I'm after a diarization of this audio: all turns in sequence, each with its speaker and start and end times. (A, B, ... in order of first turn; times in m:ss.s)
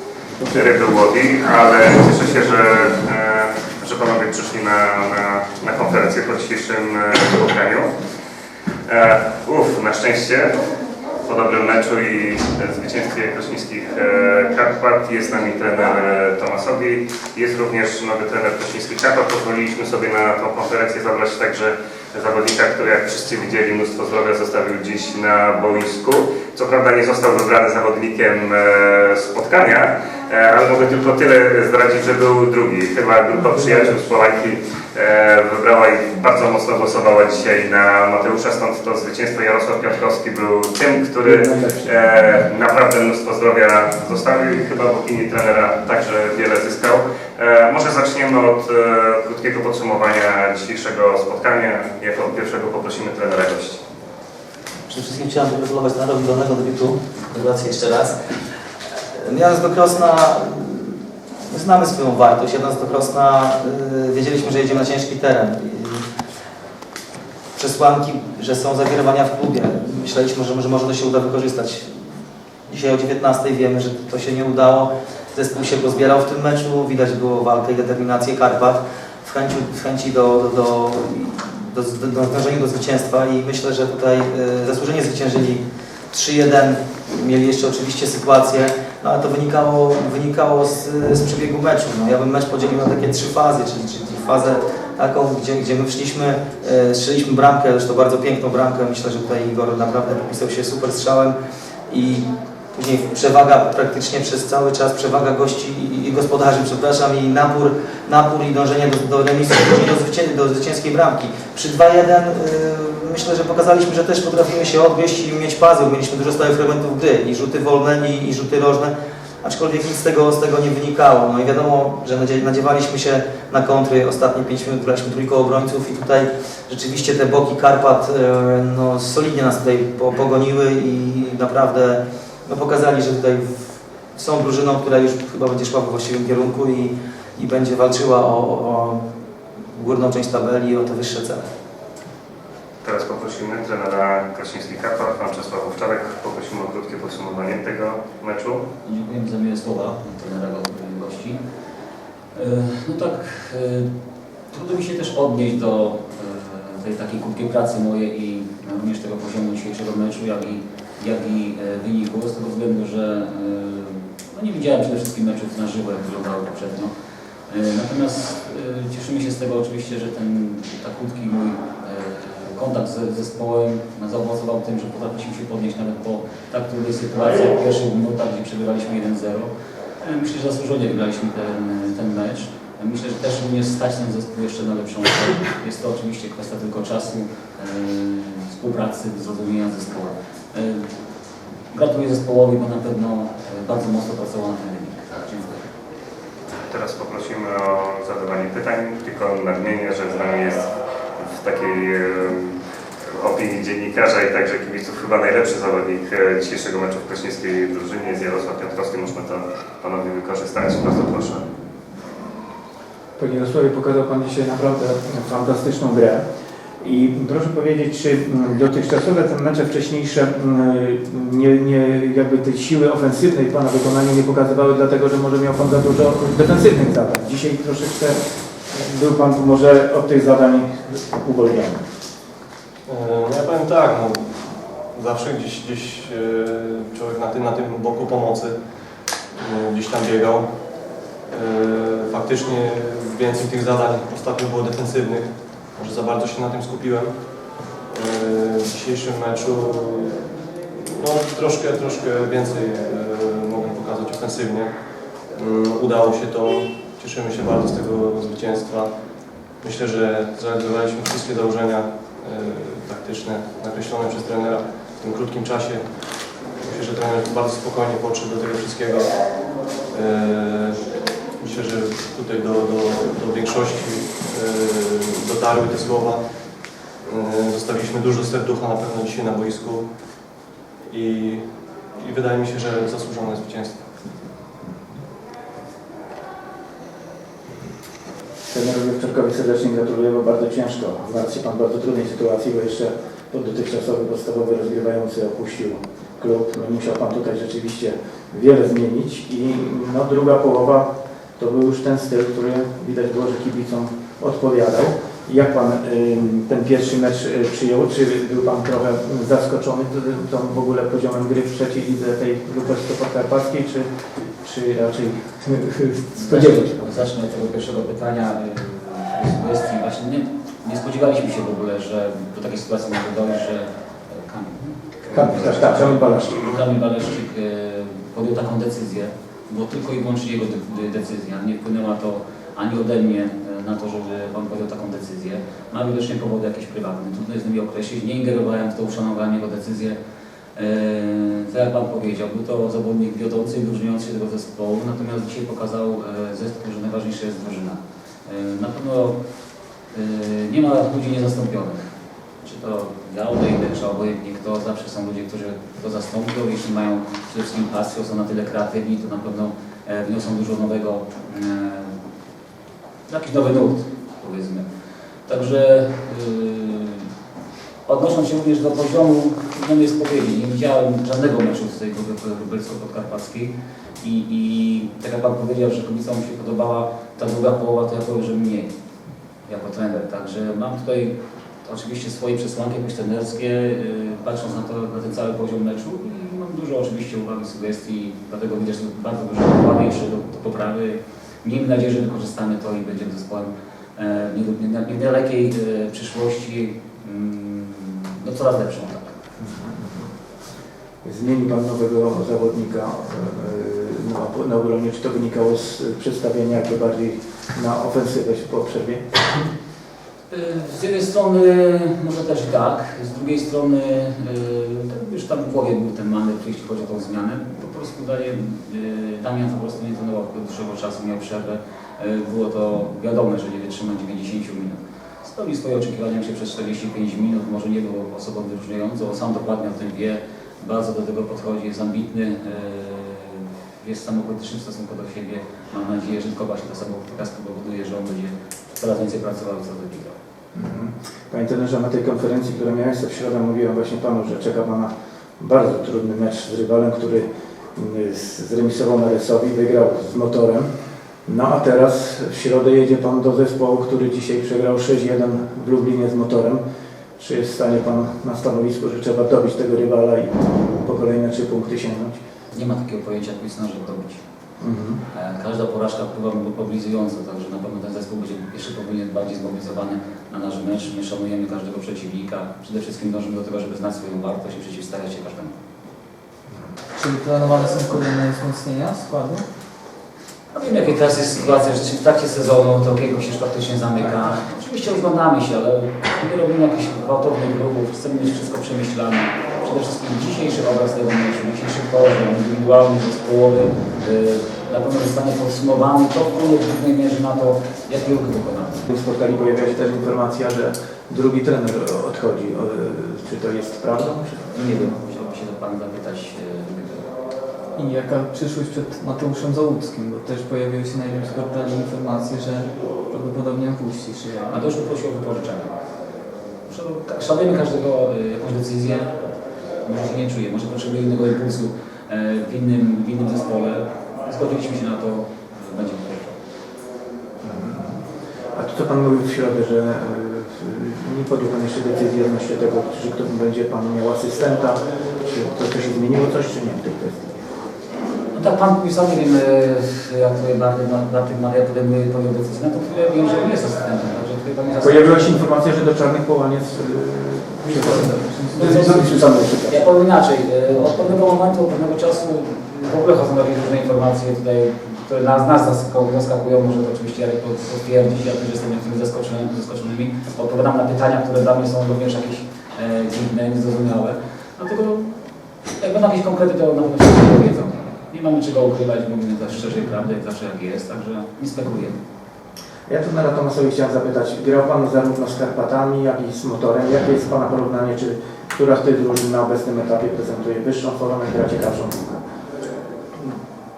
0:00.4-0:08.0 A
0:08.9-0:10.6 A
0:11.2-0:53.8 A
0:41.2-0:41.9 B
0:54.9-0:58.2 C
0:59.1-1:06.1 C
1:07.6-1:12.0 C
1:12.7-1:41.3 C
1:41.9-2:19.0 C
2:19.7-2:21.4 C
2:22.8-2:28.6 A
2:28.8-2:31.4 D
2:32.3-2:33.9 D
2:34.5-2:46.9 D
2:47.5-3:10.9 D
3:11.7-3:15.6 D
3:16.7-3:22.6 A
3:23.1-3:31.4 A
3:33.2-3:36.2 B
3:36.8-3:51.8 B
3:52.8-4:40.3 E
4:40.8-4:43.8 E
4:48.5-5:16.9 B
5:16.1-5:40.0 D
5:25.1-5:26.6 B
5:40.5-5:49.2 D
5:49.9-5:51.9 D
5:52.4-6:02.0 D
6:03.1-6:04.6 D
6:05.3-6:07.1 D
6:07.8-6:18.7 D
6:19.4-6:39.1 D
6:39.4-6:40.1 B
6:41.0-6:49.3 B
6:50.3-7:20.2 D
7:20.5-7:30.7 B
7:31.2-7:36.6 B
7:37.2-7:42.2 B
7:42.5-7:44.2 D
7:44.6-7:45.0 B
7:45.1-7:55.5 D
7:57.0-7:59.4 F
8:00.5-8:18.9 D
8:18.9-8:24.5 B
8:23.9-8:27.1 D
8:27.8-8:34.6 F
8:34.5-8:35.7 D
8:36.6-8:39.2 D
8:39.8-8:46.3 D
8:47.4-8:57.4 B
8:58.3-9:05.4 D
9:04.8-9:09.9 B
9:07.7-9:08.8 F
9:08.5-9:09.2 D
9:09.7-9:25.2 D
9:25.8-9:32.0 D
9:32.9-9:42.2 B